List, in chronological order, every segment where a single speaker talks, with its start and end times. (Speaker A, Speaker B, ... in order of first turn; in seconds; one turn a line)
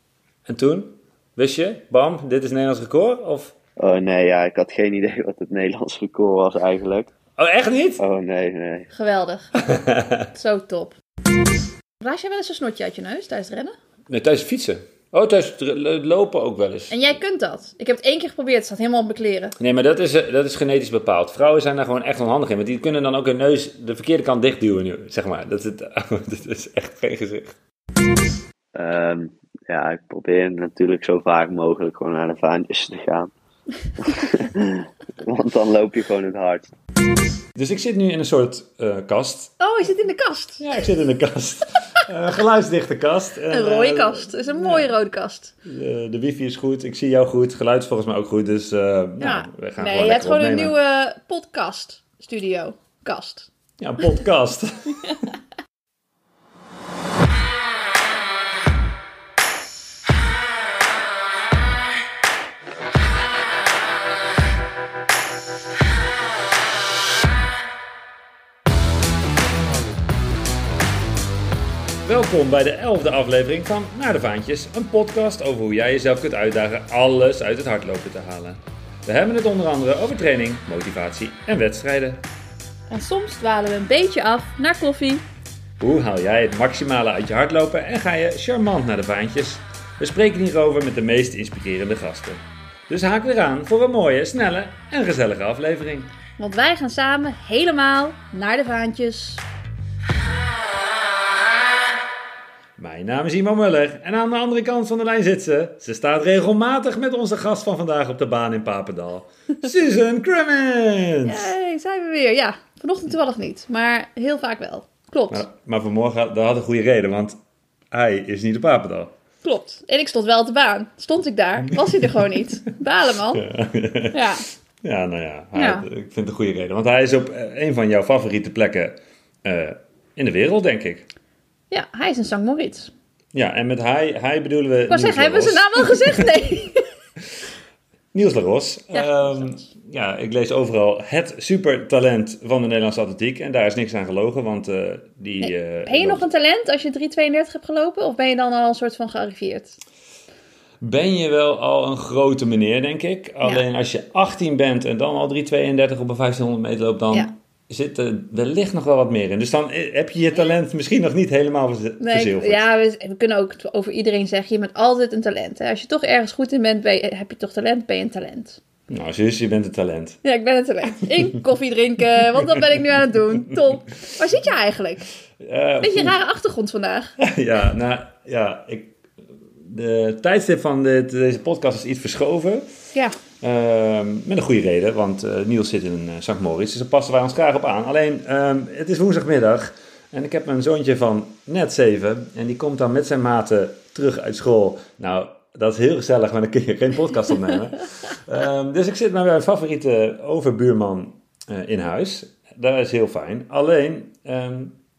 Speaker A: 0.5-3.5
Speaker B: 3.8-7.1
Speaker A: 7.4-8.0
Speaker B: 8.0-8.9
Speaker C: 8.9-9.5
Speaker A: 9.6-10.3
Speaker C: 10.3-11.0
Speaker C: 12.0-13.8
Speaker A: 14.1-17.0
Speaker C: 16.9-19.6
Speaker A: 19.6-27.6
Speaker B: 28.7-33.3
Speaker B: 34.0-36.7
Speaker A: 37.6-39.5
Speaker C: 39.6-40.6
Speaker A: 40.6-44.9
Speaker C: 43.5-45.5
Speaker A: 45.6-50.7
Speaker C: 49.2-53.5
Speaker A: 53.8-55.2
Speaker A: 72.0-82.2
Speaker C: 82.9-85.2
Speaker A: 85.8-96.1
Speaker C: 96.4-99.4
Speaker A: 102.8-111.5
Speaker C: 111.3-115.4
Speaker A: 115.3-117.4
Speaker A: 117.9-119.2
Speaker C: 119.4-123.5
Speaker A: 123.4-124.2
Speaker C: 124.1-124.5
Speaker A: 124.8-131.1
Speaker C: 125.5-125.8
Speaker C: 131.7-132.9
Speaker A: 133.3-136.3
Speaker C: 134.9-136.9
Speaker A: 138.1-146.3
Speaker C: 138.9-139.5
Speaker C: 145.4-149.8
Speaker A: 150.8-162.6
Speaker C: 162.0-168.6
Speaker A: 168.9-170.2
Speaker C: 170.2-175.1
Speaker A: 175.4-176.2
Speaker C: 175.8-177.2
Speaker A: 177.2-179.0
Speaker A: 179.6-182.7
Speaker A: 183.4-204.8